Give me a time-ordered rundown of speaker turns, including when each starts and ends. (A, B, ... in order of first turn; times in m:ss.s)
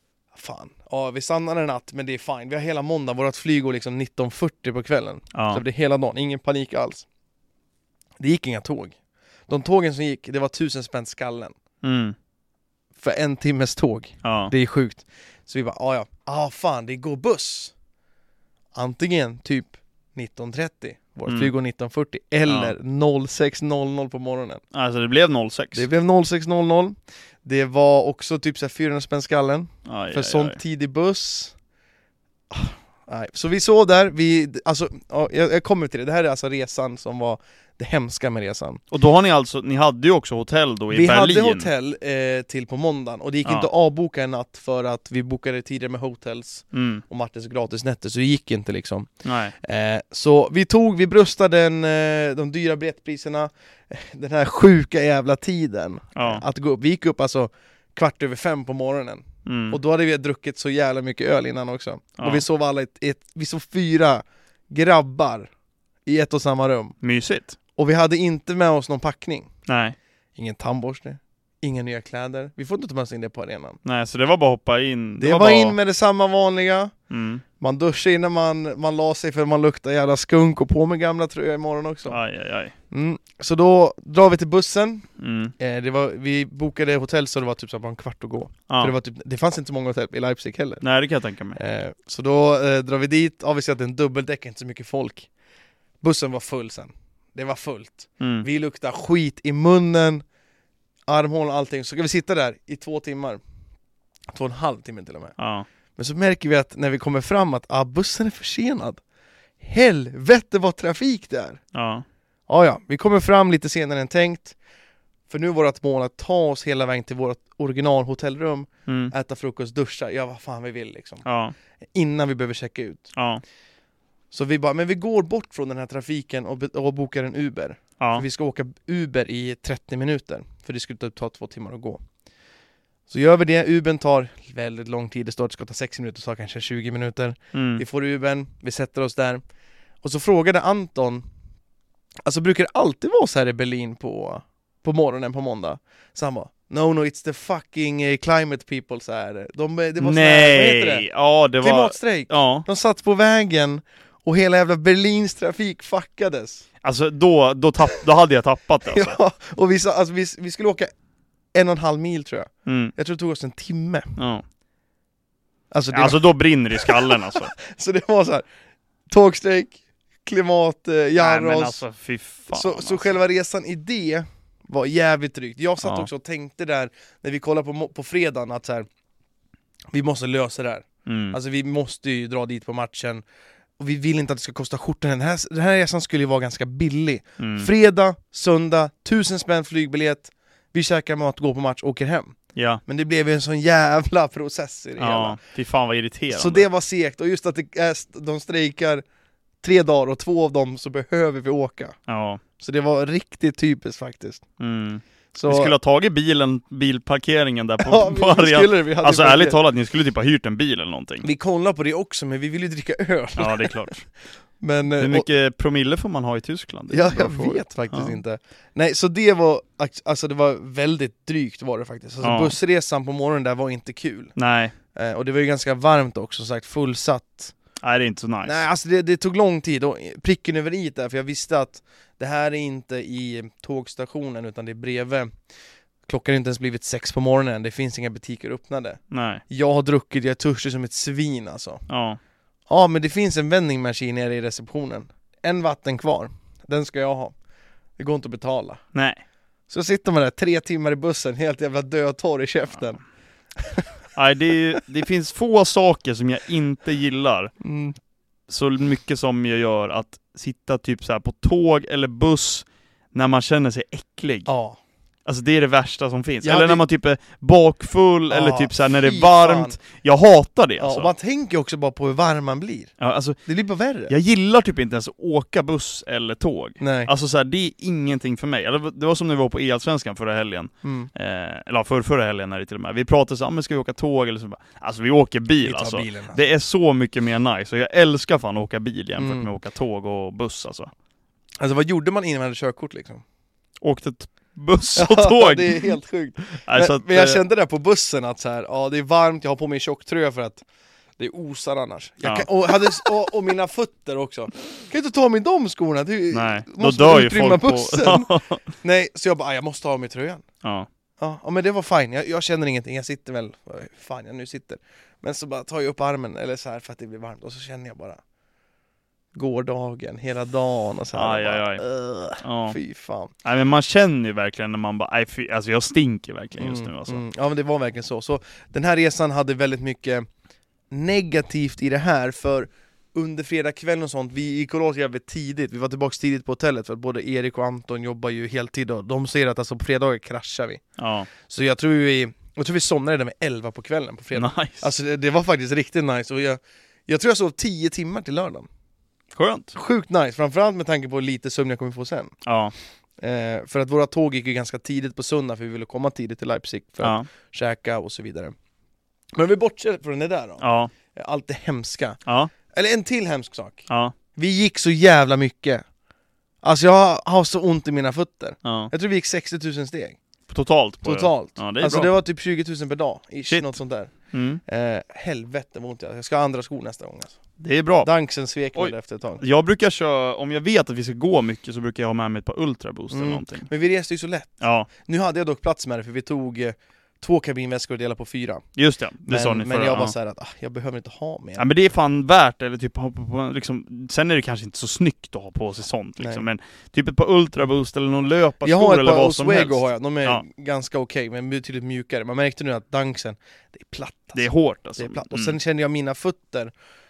0:00.3-0:07.0 A
0:05.3-0:05.6 B
0:08.2-0:09.0 A
0:09.5-0:11.6 A
0:11.8-0:12.1 B
0:13.0-0:17.7 A
0:14.2-0:14.5 B
0:18.7-0:24.6 A
0:21.3-0:21.5 B
0:22.5-0:22.7 B
0:24.7-0:25.8 B
0:25.7-0:31.5 A
0:29.8-0:30.6 B
0:32.5-0:38.8 A
0:38.9-0:41.7 B
0:40.9-0:49.1 A
0:46.7-0:47.0 B
0:49.2-0:49.5 B
0:49.6-1:05.5 A
0:56.1-0:56.4 B
0:59.4-0:59.8 B
1:02.2-1:02.4 B
1:06.0-1:06.9 A
1:07.0-1:07.6 B
1:07.8-1:09.5 A
1:09.7-1:10.0 B
1:10.4-1:13.8 A
1:13.8-1:15.8 B
1:15.2-1:16.9 A
1:17.1-1:17.4 B
1:17.6-1:22.2 A
1:22.1-1:22.7 B
1:22.9-1:25.1 A
1:25.2-1:25.5 B
1:25.6-1:30.8 A
1:28.7-1:28.9 B
1:30.8-1:31.6 B
1:31.5-1:35.3 A
1:36.0-1:40.2 A
1:38.2-1:38.5 B
1:41.1-1:43.4 A
1:44.3-1:45.4 A
1:45.4-1:45.6 B
1:46.0-1:49.0 A
1:49.6-1:51.6 A
1:51.7-1:52.0 B
1:52.5-1:54.6 A
1:55.3-2:01.2 A
1:58.9-1:59.1 B
2:01.2-2:01.5 B
2:01.9-2:03.1 A
2:03.1-2:03.4 B
2:04.3-2:12.0 A
2:08.0-2:08.2 B
2:13.1-2:19.4 A
2:17.5-2:17.8 B
2:20.0-2:21.2 A
2:22.2-2:31.1 A
2:30.0-2:32.6 B
2:31.6-2:36.6 A
2:36.8-2:39.2 B
2:38.8-2:40.9 A
2:41.5-2:44.2 A
2:42.6-2:42.9 B
2:44.2-2:44.4 B
2:45.7-2:48.5 A
2:45.9-2:47.5 B
2:49.1-2:51.8 A
2:51.2-2:53.1 B
2:52.5-2:58.9 A
2:55.8-2:56.1 B
2:59.9-3:03.2 A
3:01.0-3:01.4 B
3:03.8-3:12.4 A
3:07.4-3:07.7 B
3:12.5-3:12.8 B
3:12.9-3:15.4 A
3:15.0-3:16.7 B
3:16.3-3:19.0 A
3:19.6-3:22.0 A
3:22.1-3:22.4 B
3:22.6-3:24.4 A
3:24.6-3:31.2 B
3:25.3-3:25.7 A
3:27.8-3:29.6 A
3:31.2-3:33.9 A
3:33.4-3:34.0 B
3:34.6-3:35.2 A
3:35.0-3:38.2 B
3:36.9-3:44.3 A
3:42.2-3:42.5 B
3:44.4-3:44.7 B
3:44.9-3:47.5 A
3:47.8-3:48.6 B
3:48.4-3:55.3 A
3:56.0-4:01.8 A
3:59.1-3:59.4 B
4:01.9-4:02.2 B
4:02.7-4:07.3 A
4:08.0-4:08.8 A
4:08.9-4:09.2 B
4:09.7-4:13.0 A
4:13.6-4:13.9 A
4:14.1-4:17.5 B
4:17.6-4:18.0 A
4:18.5-4:24.5 B
4:24.4-4:24.8 A
4:25.2-4:31.1 B
4:26.4-4:26.8 A
4:28.3-4:29.8 A
4:30.8-4:32.9 A
4:33.0-4:33.4 B
4:33.4-4:34.1 A
4:34.1-4:50.9 B
4:36.8-4:37.1 A
4:40.8-4:41.1 A
4:45.6-4:46.4 A
4:49.2-4:49.5 A
4:51.6-4:53.2 A
4:53.8-4:56.0 B
4:55.0-5:00.6 A
4:56.5-4:57.4 B
5:01.2-5:10.4 A
5:02.2-5:02.5 B
5:06.3-5:08.6 B
5:11.2-5:18.2 A
5:19.3-5:23.3 A
5:21.1-5:21.8 B
5:22.4-5:22.8 B
5:23.4-5:27.2 B
5:26.6-5:30.3 A
5:30.9-5:40.8 A
5:41.0-5:41.3 B
5:41.4-5:48.7 A
5:44.3-5:44.9 B
5:49.3-5:49.7 B
5:49.7-5:52.3 A
5:52.4-5:52.7 B
5:53.2-5:58.5 A
5:57.0-5:57.3 B
5:59.3-6:02.2 A
6:00.6-6:00.9 B
6:02.2-6:02.5 B
6:02.7-6:05.8 A
6:03.9-6:04.1 B
6:06.6-6:10.2 A
6:08.6-6:08.9 B
6:10.5-6:12.1 B
6:11.0-6:14.1 A
6:13.5-6:13.7 B
6:14.3-6:14.6 B
6:14.6-6:17.4 A
6:17.6-6:18.1 B
6:18.0-6:19.4 A
6:18.7-6:23.7 B
6:23.1-6:28.6 A
6:24.6-6:24.9 B
6:28.8-6:30.1 B
6:29.3-6:31.7 A
6:31.6-6:40.4 B
6:38.6-6:44.4 A
6:44.3-6:45.6 B
6:45.0-6:46.7 A